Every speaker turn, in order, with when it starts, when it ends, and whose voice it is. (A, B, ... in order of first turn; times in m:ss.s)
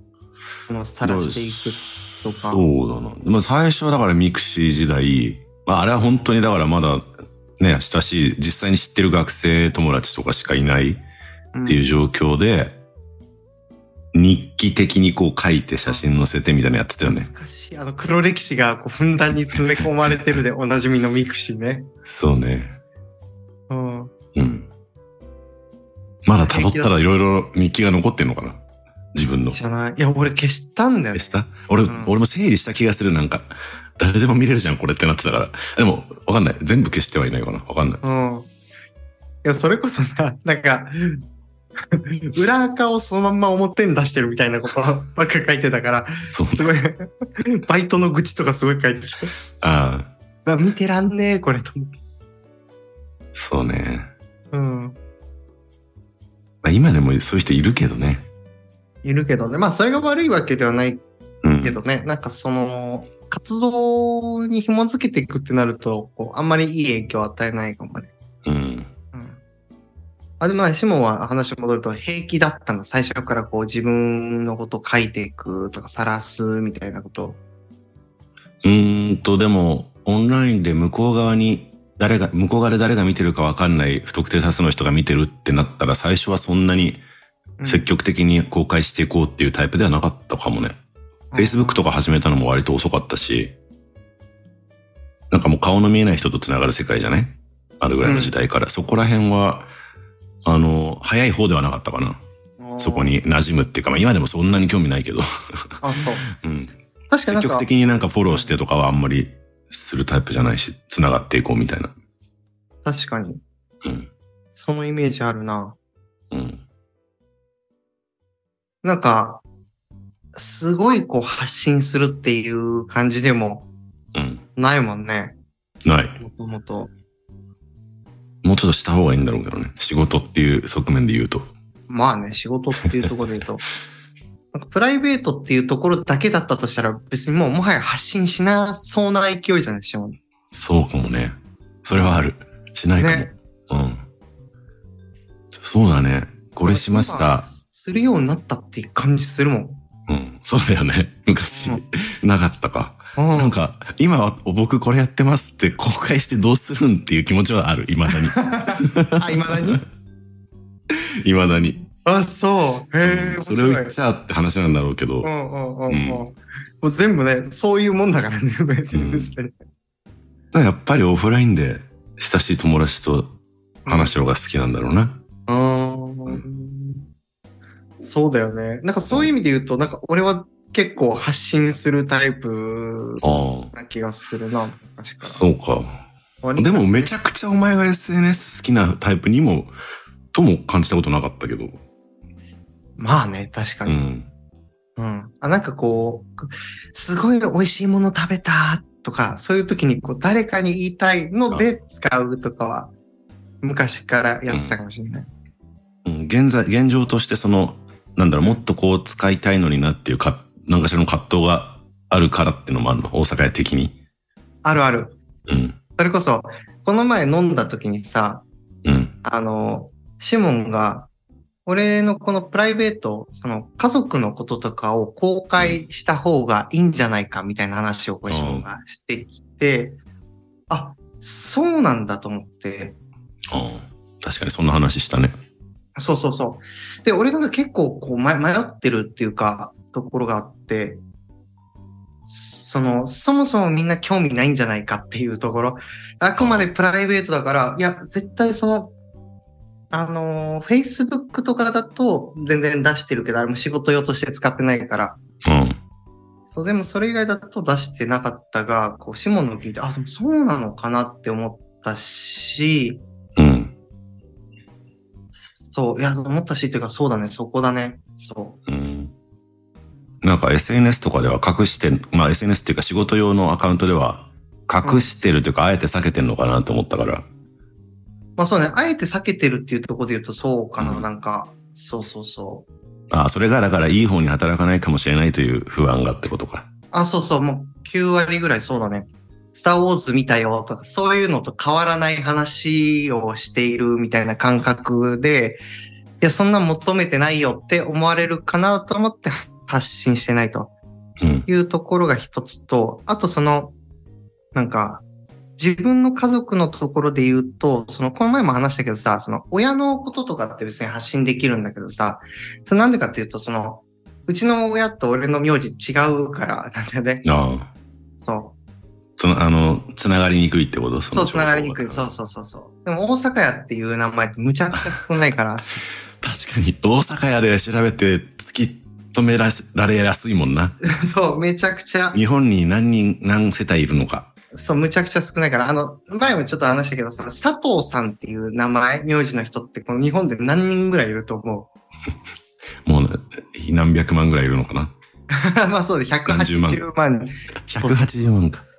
0:00.4-0:02.6 A
0:01.0-0:01.5 B
0:02.5-0:11.0 B
0:06.0-0:06.3 A
0:11.5-0:11.8 A
0:11.7-0:12.8 B
0:14.1-0:17.3 B
0:17.0-0:21.9 A
0:22.0-0:22.8 B
0:23.7-0:24.1 A
0:24.4-0:24.7 B
0:26.2-0:28.6 B
0:26.4-0:26.9 A
0:29.1-0:29.6 B
0:29.5-0:32.2 A
0:31.1-0:38.0 B
0:38.0-0:38.5 A
0:39.4-0:41.2 A
0:41.9-0:49.3 A
0:46.3-0:46.7 B
0:49.6-0:50.1 B
0:50.5-0:51.9 A
0:53.4-0:54.1 B
0:54.5-0:55.0 A
0:56.6-0:58.3 B
0:59.0-1:01.0 A
1:01.4-1:01.8 B
1:01.6-1:08.1 A
1:08.4-1:08.9 B
1:09.1-1:09.4 A
1:10.4-1:17.4 A
1:18.6-1:27.0 B
1:27.6-1:27.9 A
1:27.7-1:30.8 B
1:31.3-1:32.0 A
1:31.4-1:33.6 B
1:35.3-1:39.7 B
1:38.0-1:38.3 A
1:40.4-1:42.2 B
1:42.6-1:43.2 A
1:42.8-1:45.7 B
1:45.8-1:46.3 A
1:46.3-1:46.7 B
1:47.1-1:48.6 A
1:47.3-1:51.9 B
1:52.8-1:53.4 A
1:53.8-1:54.1 B
1:54.6-1:55.8 A
1:56.3-1:56.6 B
1:58.8-1:59.4 A
2:00.4-2:03.7 A
2:04.1-2:04.4 B
2:04.6-2:05.4 A
2:05.8-2:06.2 B
2:06.2-2:06.9 A
2:08.4-2:11.5 B
2:11.9-2:13.6 A
2:14.5-2:20.2 A
2:20.5-2:24.0 B
2:23.0-2:23.3 A
2:25.5-2:27.5 B
2:26.6-2:29.8 A
2:30.1-2:39.8 B
2:31.5-2:31.8 A
2:33.2-2:33.6 A
2:38.1-2:39.8 A
2:41.2-2:41.8 B
2:41.8-2:44.0 A
2:43.0-2:45.3 B
2:45.2-2:49.5 A
2:45.9-2:46.2 B
2:48.9-2:49.4 B
2:50.5-2:55.2 B
2:53.8-2:54.2 A
2:55.5-2:57.1 A
2:58.0-3:05.4 A
3:03.2-3:03.7 B
3:05.2-3:05.9 B
3:06.4-3:07.1 A
3:06.6-3:09.8 B
3:10.3-3:11.8 B
3:13.0-3:14.0 A
3:13.8-3:14.3 B
3:15.0-3:22.9 A
3:23.6-3:25.3 A
3:24.5-3:24.8 B
3:26.0-3:34.0 B
3:34.6-3:35.2 A
3:35.5-3:35.8 B
3:36.0-3:38.4 A
3:38.8-3:39.2 B
3:39.2-3:41.1 A
3:41.7-3:50.0 A
3:45.6-3:45.9 B
3:48.3-3:48.7 B
3:50.7-3:53.0 A
3:53.5-3:55.3 B
3:56.0-4:01.0 A
4:02.3-4:08.9 A
4:06.4-4:06.7 B
4:09.9-4:15.2 A
4:15.4-4:15.8 B
4:16.5-4:23.0 A
4:23.4-4:23.7 B
4:25.4-4:28.6 A
4:28.7-4:29.1 B
4:30.2-4:37.3 B
4:34.8-4:35.1 A
4:38.4-4:42.7 A
4:40.8-4:41.1 B
4:43.1-4:46.7 B
4:46.9-4:55.6 A
4:56.2-5:00.7 A
5:01.2-5:01.5 B
5:01.5-5:03.8 A
5:04.5-5:05.0 A
5:05.6-5:17.2 A
5:17.2-5:17.7 B
5:18.2-5:18.6 A
5:19.2-5:22.1 B
5:21.1-5:25.8 A
5:26.2-5:30.8 B
5:30.8-5:32.2 A
5:32.1-5:34.3 B
5:34.5-5:41.7 A
5:42.8-5:44.9 B
5:45.3-5:48.1 A
5:46.3-5:46.8 B
5:47.7-5:48.6 B